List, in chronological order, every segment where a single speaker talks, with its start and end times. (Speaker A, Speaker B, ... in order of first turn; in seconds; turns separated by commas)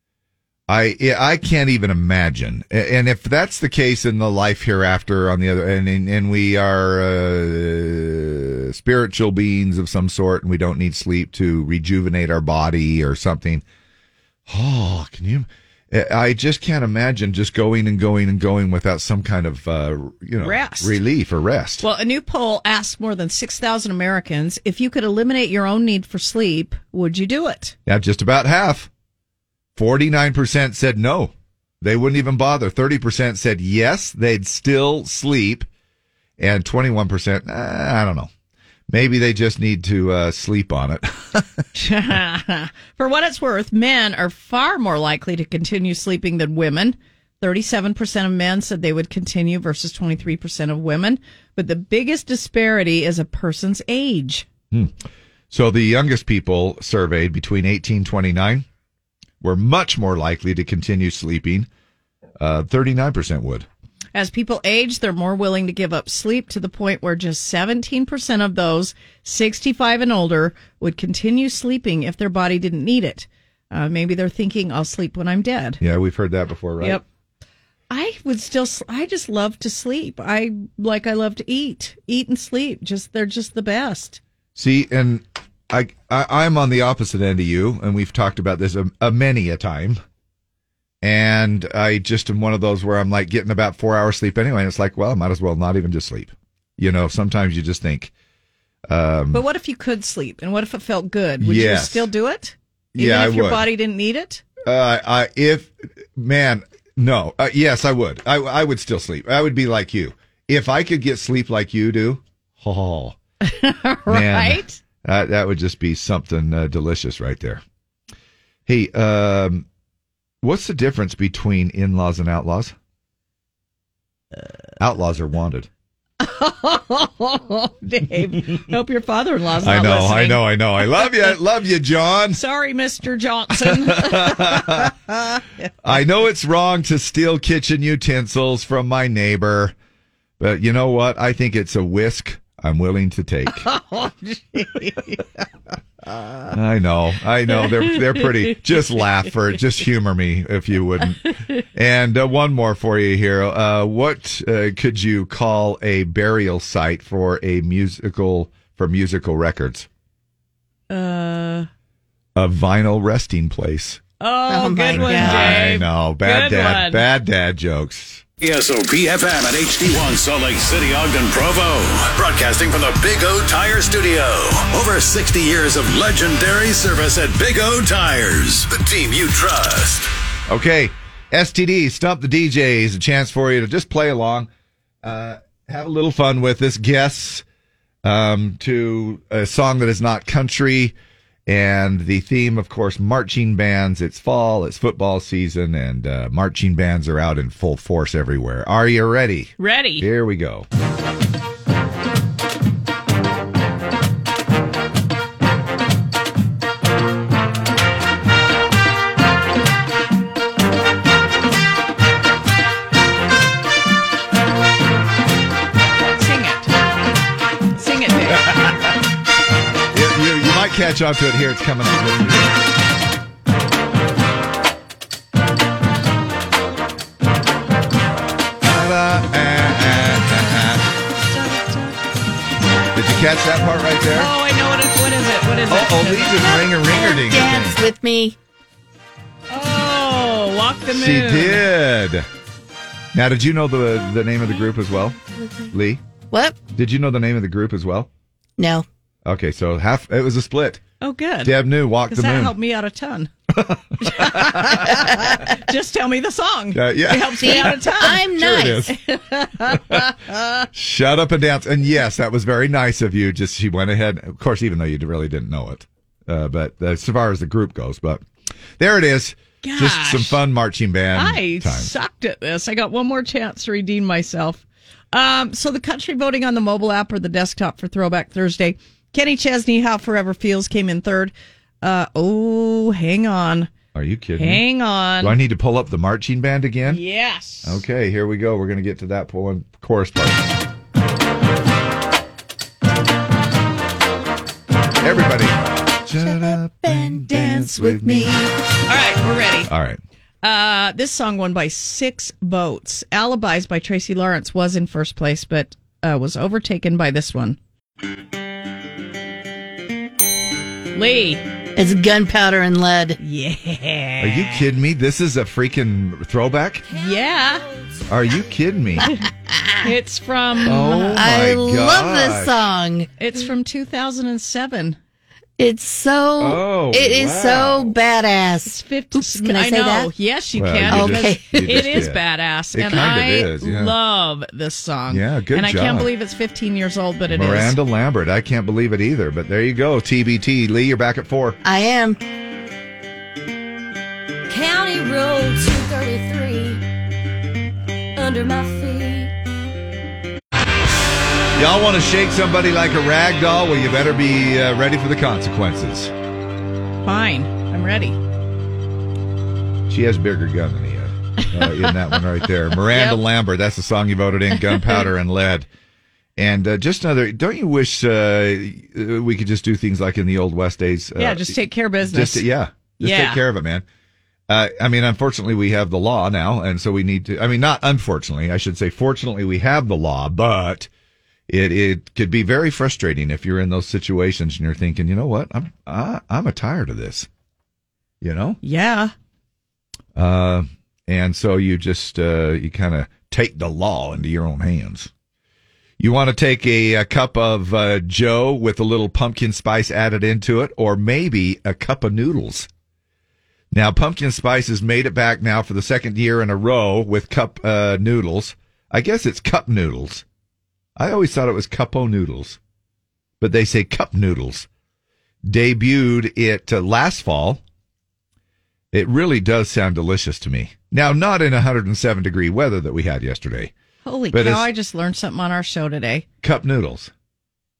Speaker A: 0.7-13.6, Speaker A: 14.5-21.8, Speaker B: 20.4-21.0, Speaker B: 21.8-27.7, Speaker A: 27.9-28.9, Speaker A: 29.8-35.7, Speaker A: 36.4-38.3, Speaker A: 38.9-41.6, Speaker B: 41.7-54.5, Speaker A: 54.7-55.0, Speaker A: 55.5-58.6, Speaker A: 59.4-61.7, Speaker A: 62.4-63.7, Speaker B: 64.1-75.8, Speaker A: 75.8-77.0, Speaker B: 77.9-84.2, Speaker A: 84.5-90.0, Speaker A: 91.0-98.1, Speaker A: 98.9-99.4, Speaker B: 99.3-104.4, Speaker A: 101.4-102.1, Speaker A: 102.9-103.6, Speaker A: 104.6-113.2, Speaker B: 113.4-114.8, Speaker A: 114.1-117.6, Speaker A: 118.7-119.7, Speaker A: 120.4-122.7, Speaker A: 124.8-125.7, Speaker B: 126.2-131.3, Speaker A: 129.6-132.4, Speaker B: 132.3-135.7, Speaker A: 133.6-134.9, Speaker A: 135.8-139.7, Speaker A: 140.4-143.7, Speaker B: 143.6-145.3, Speaker B: 146.2-146.4, Speaker A: 146.5-159.9, Speaker B: 147.6-148.3, Speaker B: 160.9-161.7, Speaker A: 162.3-164.0, Speaker B: 164.2-167.0, Speaker C: 164.5-165.6, Speaker A: 164.9-168.2, Speaker D: 168.4-180.1, Speaker A: 180.5-184.5, Speaker A: 185.0-187.4, Speaker A: 188.0-190.9, Speaker A: 191.5-200.7, Speaker B: 199.6-200.0, Speaker B: 216.2-216.7, Speaker B: 217.8-218.5, Speaker A: 218.3-218.9, Speaker A: 219.9-222.5, Speaker A: 228.6-230.8, Speaker B: 231.2-231.9, Speaker A: 232.9-234.3, Speaker B: 234.1-236.6, Speaker A: 235.7-237.8, Speaker C: 236.8-238.3, Speaker B: 239.5-241.7, Speaker A: 240.9-242.3, Speaker A: 243.1-245.2, Speaker C: 245.4-245.7, Speaker A: 245.7-246.0, Speaker C: 246.3-246.6, Speaker A: 246.7-248.1, Speaker C: 248.6-248.8, Speaker A: 249.2-250.8, Speaker B: 251.0-251.6, Speaker A: 251.4-252.5, Speaker B: 252.1-253.3, Speaker A: 253.5-255.2, Speaker B: 254.0-260.4, Speaker A: 256.7-258.9, Speaker C: 257.4-258.9, Speaker A: 259.7-260.0, Speaker A: 260.7-268.2, Speaker A: 268.8-271.9, Speaker B: 269.6-270.4, Speaker B: 271.1-283.7, Speaker A: 283.9-284.6, Speaker B: 284.4-285.4, Speaker A: 285.2-287.0, Speaker B: 286.9-287.8, Speaker A: 287.6-290.5, Speaker A: 295.0-298.3, Speaker C: 296.2-298.1, Speaker B: 297.3-299.7, Speaker A: 299.6-300.0, Speaker B: 300.4-307.6, Speaker B: 310.9-311.4, Speaker C: 311.8-313.2, Speaker B: 313.2-314.6, Speaker A: 314.2-316.8, Speaker B: 316.9-317.6, Speaker A: 318.1-319.1, Speaker C: 319.5-319.8, Speaker B: 319.8-321.2, Speaker A: 320.6-322.5, Speaker C: 321.1-323.1, Speaker B: 323.2-325.0, Speaker C: 325.6-330.1, Speaker A: 326.4-327.9, Speaker B: 328.6-337.8, Speaker A: 330.6-332.2, Speaker C: 330.9-332.0, Speaker A: 332.7-333.9, Speaker A: 335.1-336.1, Speaker A: 337.3-341.6, Speaker C: 341.6-342.2, Speaker E: 344.5-346.8, Speaker E: 348.1-349.3, Speaker A: 351.6-356.1, Speaker B: 357.0-358.2, Speaker A: 359.9-365.7, Speaker B: 361.6-361.9, Speaker B: 362.8-363.2, Speaker B: 364.7-365.0, Speaker A: 366.4-373.8, Speaker B: 371.2-372.4, Speaker B: 373.0-373.4, Speaker A: 374.5-380.9, Speaker A: 381.5-387.3, Speaker A: 388.2-388.6, Speaker B: 388.6-389.1, Speaker A: 390.1-395.1, Speaker A: 396.0-402.7, Speaker A: 403.7-410.2, Speaker A: 410.9-412.6, Speaker A: 413.4-414.7, Speaker A: 415.4-417.6, Speaker A: 418.9-423.7, Speaker B: 424.0-426.2, Speaker A: 424.3-424.7, Speaker A: 426.4-427.1